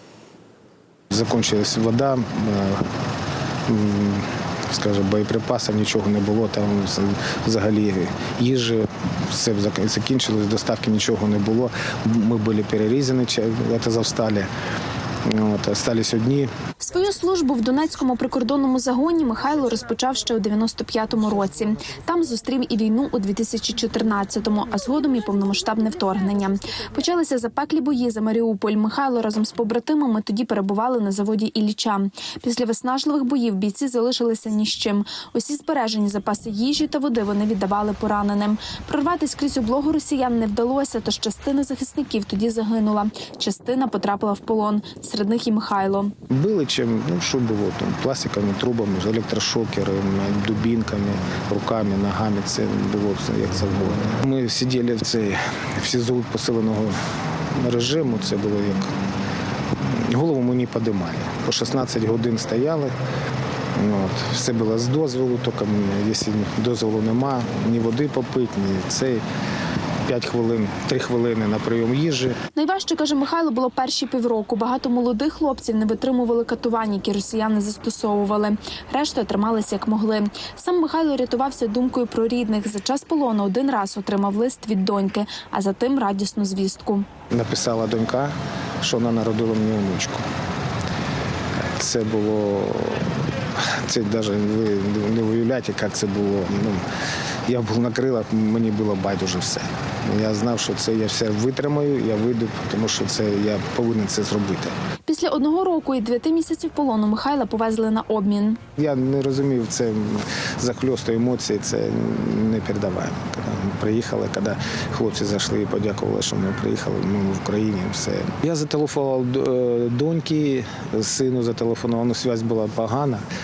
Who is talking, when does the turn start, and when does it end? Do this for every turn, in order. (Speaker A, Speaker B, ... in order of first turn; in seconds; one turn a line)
Speaker A: 1.1-2.8
Speaker A: 3.7-14.5
Speaker A: 15.3-16.5
Speaker B: 16.8-46.1
Speaker A: 46.3-57.0
Speaker A: 57.5-58.9
Speaker A: 60.0-62.9
Speaker A: 63.8-69.2
Speaker A: 70.0-72.4
Speaker B: 72.5-87.1
Speaker A: 87.3-90.2
Speaker A: 91.8-96.8
Speaker A: 97.5-104.7
Speaker B: 105.1-108.6
Speaker A: 108.8-123.2